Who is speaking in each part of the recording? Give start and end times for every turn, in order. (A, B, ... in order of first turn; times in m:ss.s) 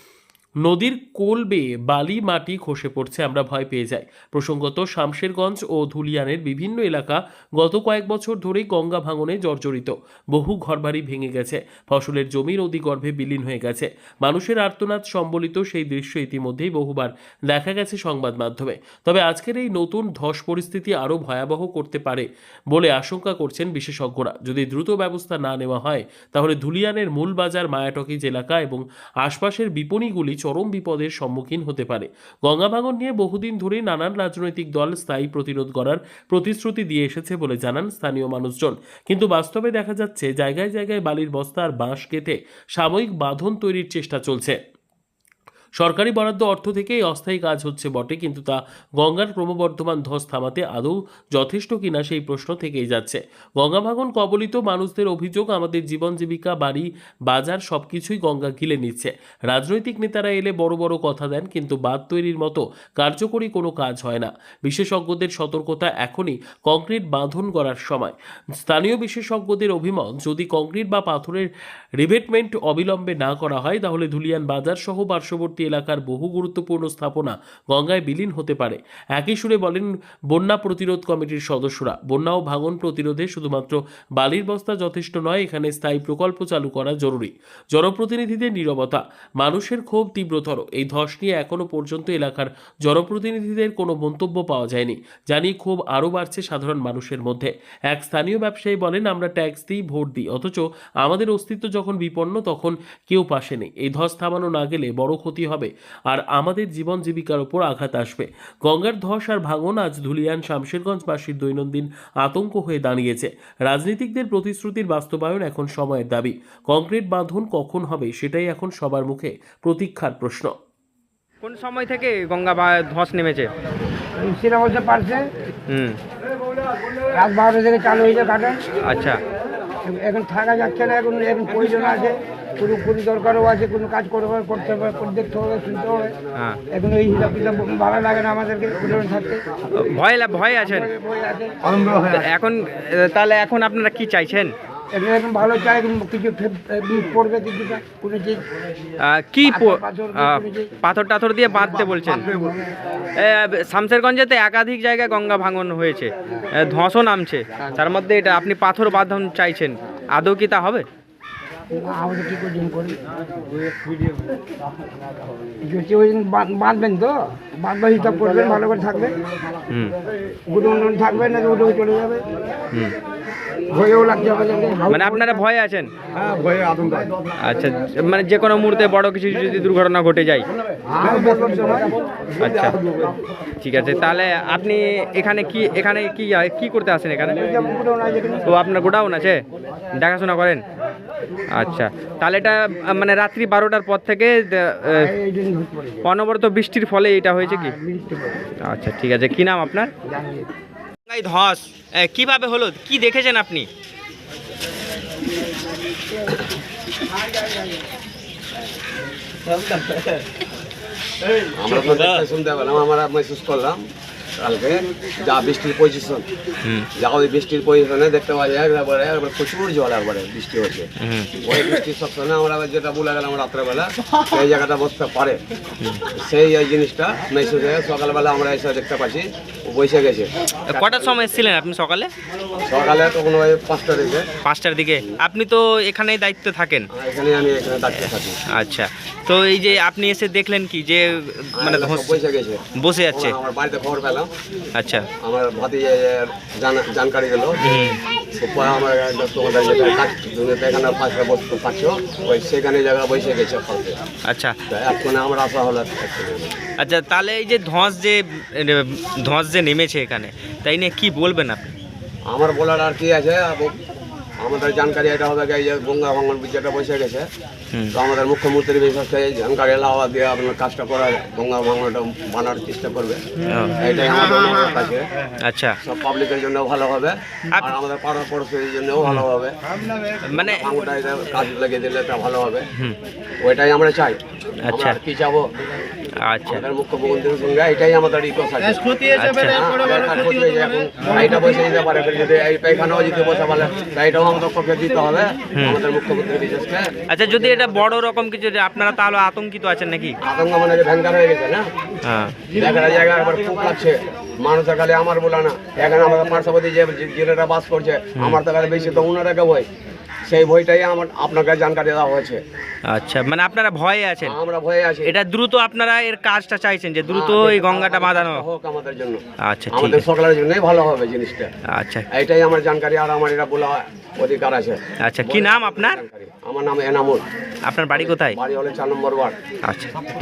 0:00.6-0:44.6 A
0:45.8-2:00.5 A
2:01.4-2:03.5 B
2:04.2-2:05.2 C
2:05.7-2:06.0 B
2:07.1-2:08.6 C
2:08.8-2:09.2 B
2:09.8-2:16.2 C
2:16.7-2:19.4 C
2:19.8-2:20.9 B
2:20.6-2:21.6 C
2:21.9-2:24.5 B
2:24.9-2:28.4 C
2:29.0-2:32.3 B
2:29.4-2:30.7 C
2:31.9-2:32.6 C
2:33.2-2:40.8 B
2:41.7-2:43.0 C
2:45.6-2:49.2 C
2:49.7-2:49.9 B
2:50.5-2:52.2 C
2:53.7-2:55.4 C
2:54.9-2:55.9 B
2:57.4-3:00.4 B
3:00.9-3:02.0 C
3:02.4-3:02.8 B
3:03.6-3:07.4 B
3:07.4-3:08.5 C
3:08.4-3:09.4 B
3:10.0-3:10.6 B
3:11.5-3:15.1 B
3:14.9-3:16.0 C
3:16.0-3:17.7 B
3:17.6-3:18.5 C
3:18.7-3:19.9 B
3:20.1-3:20.5 C
3:21.0-3:23.7 B
3:29.5-3:30.2 B
3:31.6-3:33.8 D
3:34.4-3:36.2 D
3:37.0-3:40.9 D
3:41.0-3:41.3 B
3:41.4-3:45.4 D
3:46.1-3:51.1 D
3:50.7-3:52.1 B
3:52.6-3:54.3 D
3:54.4-3:56.9 B
3:56.9-3:58.4 D
3:58.5-4:02.2 B
4:01.6-4:04.3 D
4:02.8-4:03.4 B
4:04.7-4:05.1 B
4:05.2-4:07.7 D
4:07.6-4:08.0 B
4:08.3-4:14.0 D
4:14.3-4:14.6 B
4:14.7-4:16.6 D
4:16.8-4:21.7 B
4:22.3-4:23.7 D
4:24.4-4:27.3 D
4:27.7-4:28.0 B
4:27.9-4:33.2 D
4:33.5-4:33.8 B
4:33.8-4:35.1 D
4:35.4-4:35.8 B
4:35.8-4:39.6 D
4:40.3-4:40.6 B
4:40.3-4:42.7 D
4:43.4-4:45.5 D
4:44.6-4:45.0 B
4:46.2-4:46.6 B
4:46.4-4:57.6 D
4:49.1-4:49.6 B
4:55.6-4:55.8 B
4:57.1-5:00.2 B
5:00.2-5:01.6 D
5:02.0-5:02.4 B
5:02.5-5:09.7 D
5:10.3-5:12.4 D
5:12.9-5:14.4 B
5:14.2-5:15.1 D
5:15.0-5:18.4 B
5:17.1-5:21.5 D
5:19.4-5:20.0 B
5:21.7-5:22.0 B
5:22.1-5:27.2 D
5:25.0-5:26.0 B
5:27.7-5:28.4 B
5:27.9-5:29.4 D
5:29.6-5:29.9 B